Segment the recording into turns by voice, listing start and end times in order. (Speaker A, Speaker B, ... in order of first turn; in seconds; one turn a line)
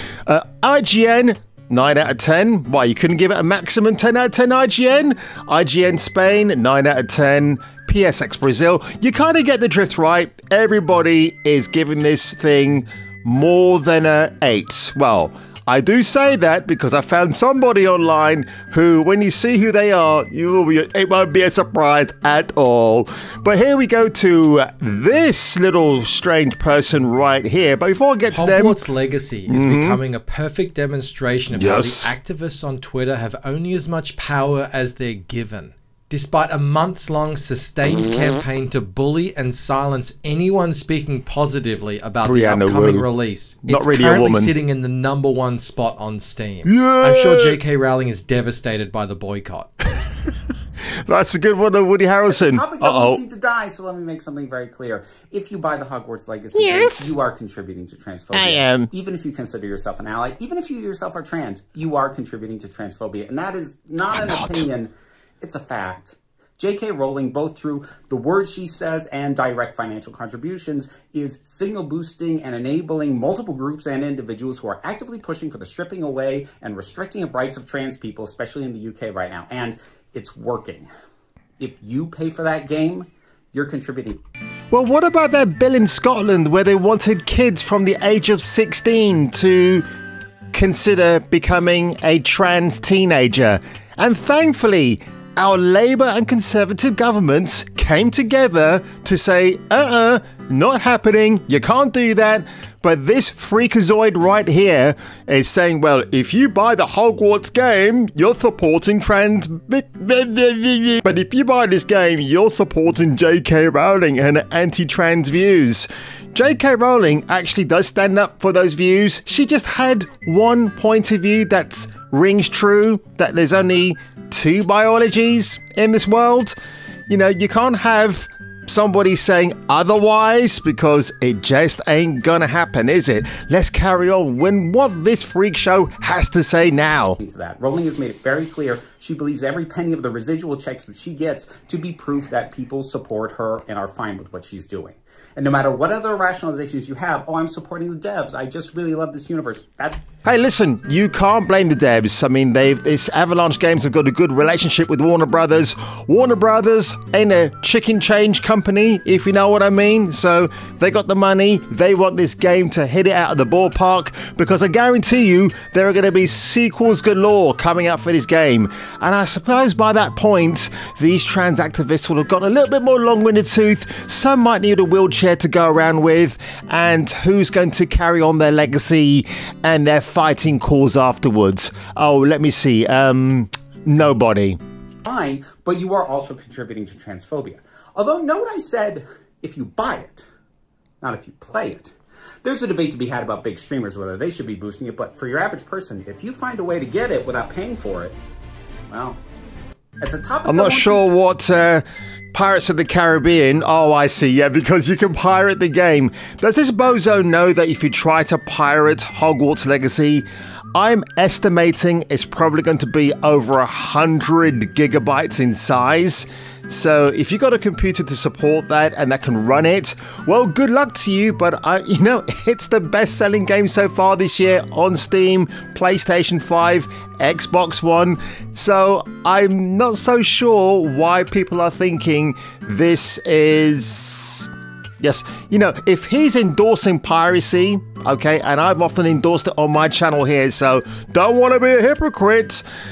Speaker A: 0.2-28.8
Speaker B: 28.3-49.7
Speaker A: 29.5-30.0
Speaker A: 31.5-32.1
Speaker A: 42.2-43.1
Speaker A: 43.6-44.5
Speaker A: 46.6-47.6
Speaker A: 51.0-53.2
Speaker C: 52.3-64.9
Speaker A: 56.5-57.1
Speaker A: 58.3-58.9
Speaker A: 64.1-64.7
Speaker C: 65.4-80.9
Speaker C: 81.6-84.2
Speaker A: 84.7-89.8
Speaker A: 90.5-126.5
Speaker A: 127.1-137.2
Speaker C: 137.2-150.0
Speaker A: 150.2-184.6
Speaker C: 185.0-190.2
Speaker C: 191.0-191.9
Speaker C: 192.4-198.2
Speaker C: 198.9-199.2
Speaker C: 200.0-201.0
Speaker A: 200.4-242.6